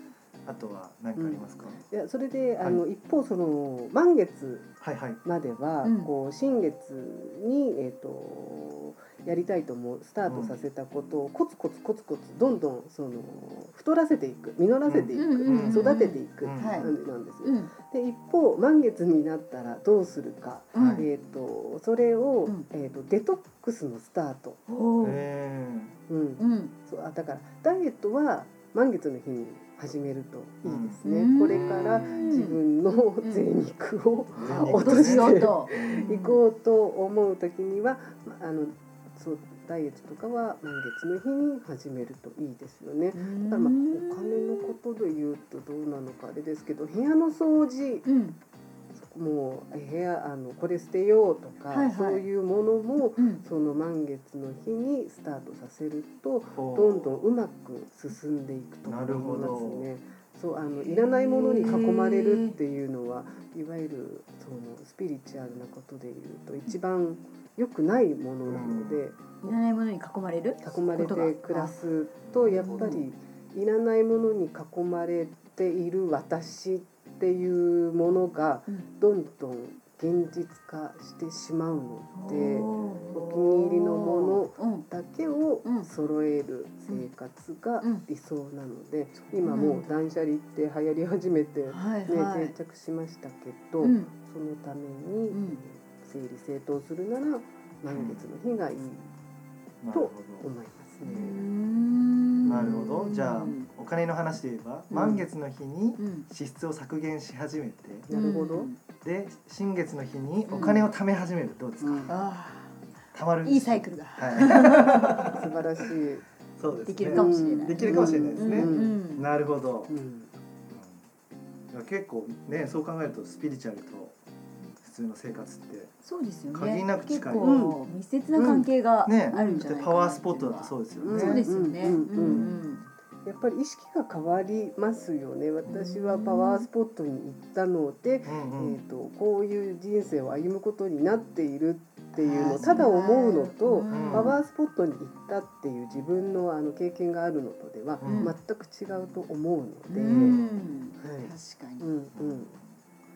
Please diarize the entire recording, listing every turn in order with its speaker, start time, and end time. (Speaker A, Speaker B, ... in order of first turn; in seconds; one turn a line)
Speaker A: 0.4-1.8
Speaker B: 1.1-4.7
Speaker A: 4.8-5.2
Speaker B: 5.2-24.6
Speaker C: 5.8-6.1
Speaker A: 10.3-10.5
Speaker A: 14.9-16.9
Speaker C: 15.1-16.9
Speaker C: 17.4-17.7
Speaker C: 20.7-21.1
Speaker A: 20.8-21.1
Speaker C: 24.7-25.2
Speaker A: 25.0-25.9
Speaker B: 26.1-48.0
Speaker C: 26.4-26.7
Speaker A: 30.6-31.0
Speaker C: 31.0-32.6
Speaker A: 31.5-32.3
Speaker A: 34.4-36.0
Speaker C: 34.4-36.4
Speaker C: 43.1-44.8
Speaker C: 48.0-48.4
Speaker B: 49.0-69.5
Speaker C: 51.7-52.2
Speaker C: 53.1-53.4
Speaker A: 56.5-57.2
Speaker A: 58.9-59.9
Speaker C: 60.8-62.6
Speaker A: 68.5-69.0
Speaker C: 69.4-71.8
Speaker B: 70.6-99.1
Speaker A: 72.3-73.0
Speaker C: 72.5-73.0
Speaker C: 82.2-84.9
Speaker C: 89.3-89.9
Speaker C: 91.7-92.5
Speaker C: 93.8-94.1
Speaker C: 95.3-95.6
Speaker A: 97.9-98.2
Speaker A: 99.8-100.4
Speaker B: 99.9-101.4
Speaker C: 101.0-103.7
Speaker A: 102.5-108.1
Speaker B: 102.5-102.8
Speaker C: 104.9-105.2
Speaker C: 106.0-106.2
Speaker B: 108.1-108.7
Speaker C: 108.1-108.8
Speaker A: 109.0-112.1
Speaker C: 110.5-110.8
Speaker B: 111.8-112.1
Speaker C: 112.1-112.8
Speaker A: 113.1-115.4
Speaker C: 113.4-115.3
Speaker B: 115.3-116.2
Speaker A: 116.6-119.9
Speaker C: 116.9-119.3
Speaker B: 117.1-119.0
Speaker B: 119.9-120.3
Speaker A: 120.7-121.0
Speaker A: 121.7-124.1
Speaker A: 124.8-125.9
Speaker C: 126.0-132.8
Speaker A: 126.5-127.5
Speaker B: 127.4-127.8
Speaker B: 128.3-128.7
Speaker A: 129.0-131.4
Speaker B: 129.3-129.6
Speaker B: 131.0-132.5
Speaker A: 132.2-132.8
Speaker B: 133.2-150.4
Speaker C: 135.7-136.7
Speaker A: 138.2-138.8
Speaker C: 142.2-144.4
Speaker A: 142.6-142.8
Speaker A: 143.9-144.3
Speaker A: 148.0-148.3
Speaker C: 148.0-148.3
Speaker C: 149.9-151.9
Speaker A: 150.1-150.7
Speaker B: 151.0-152.5
Speaker A: 152.1-152.6